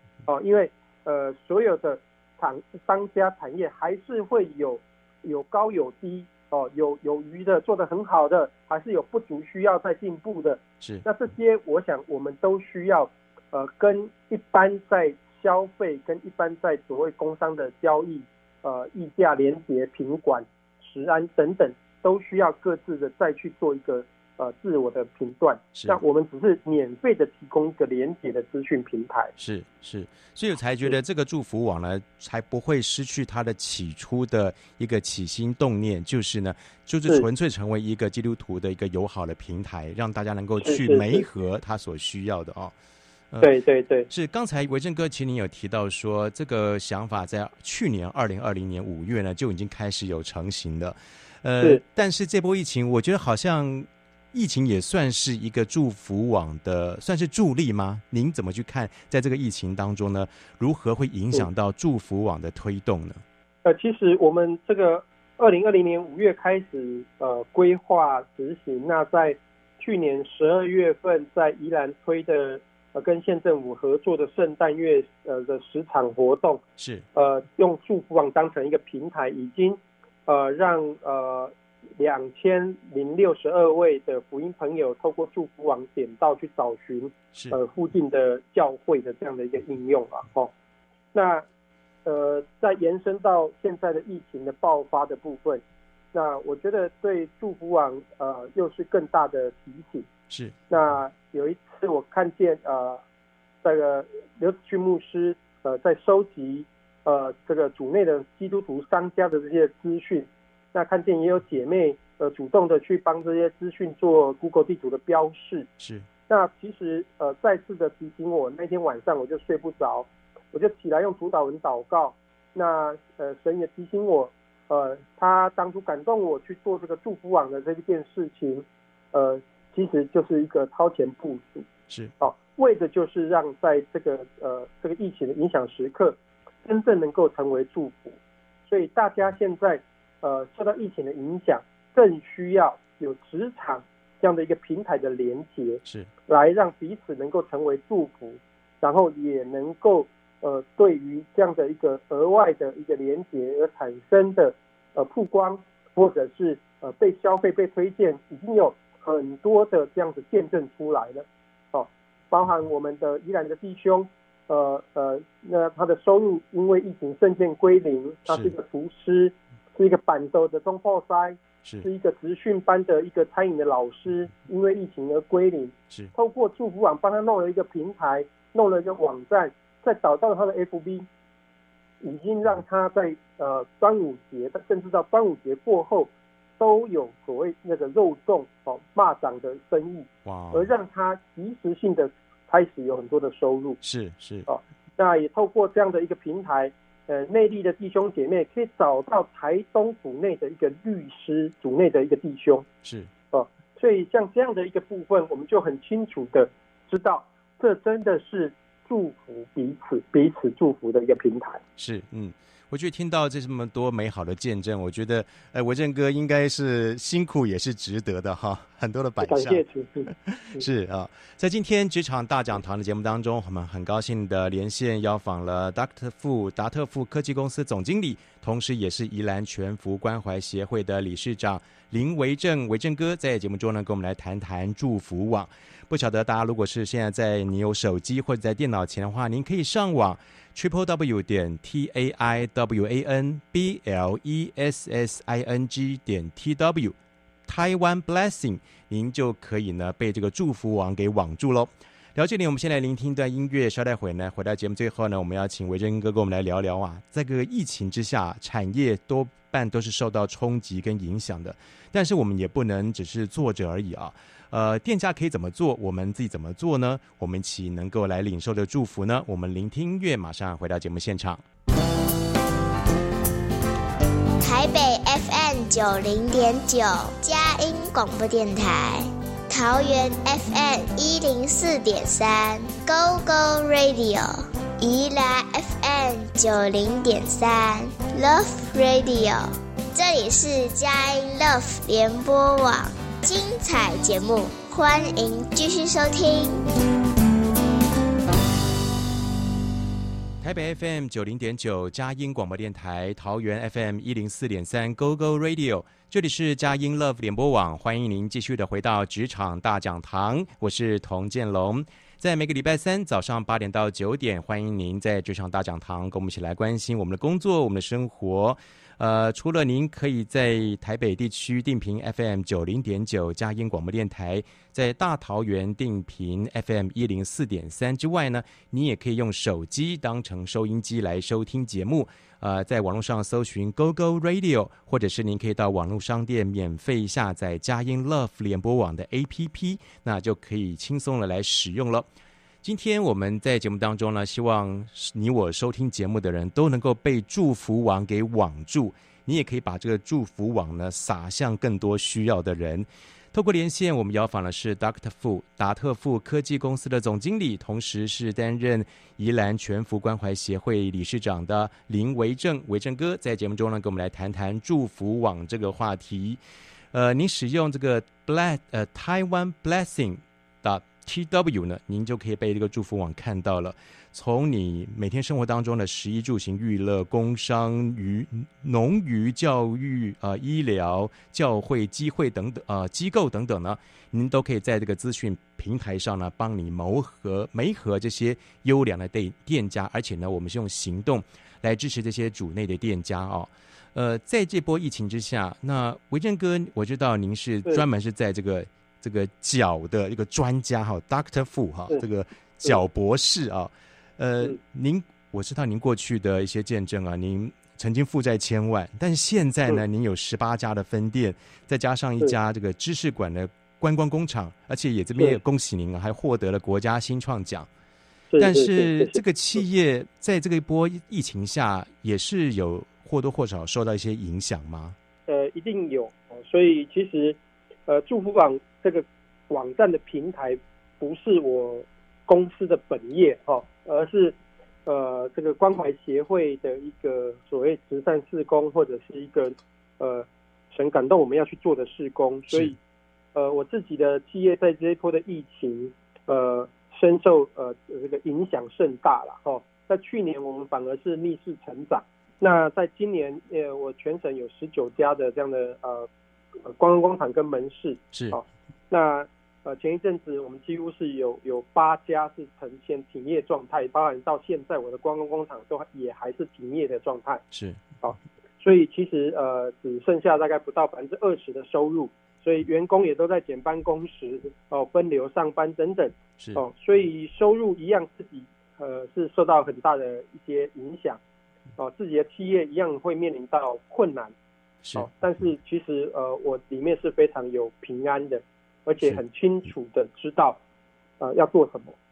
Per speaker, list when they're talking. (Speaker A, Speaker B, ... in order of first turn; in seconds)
Speaker A: 0.2-29.3, 40.6-41.2, 43.4-44.1, 63.6-76.6, 77.1-90.5, 91.1-91.5, 92.0-95.6, 96.1-100.1, 100.7-103.0, 103.6-115.7, 116.3-131.7, 132.2-181.1, 182.0-193.8, 194.5-202.7, 203.3-211.6, 219.2-220.6, 418.3-419.2, 425.3-442.8, 443.3-456.1, 456.6-467.4, 468.0-481.2, 481.8-484.3, 484.9-490.6, 491.2-491.9
Speaker B: 25.7-26.0, 29.4-42.7, 44.1-63.2, 76.8-77.0, 100.3-100.5, 115.8-116.0, 190.2-190.7, 193.8-194.5, 202.8-203.1, 211.8-246.9, 247.5-271.4, 300.4-342.1, 342.6-366.4, 366.9-417.7, 418.4-424.9, 458.1-458.4, 467.5-467.8, 484.8-485.1
Speaker C: 274.4-296.6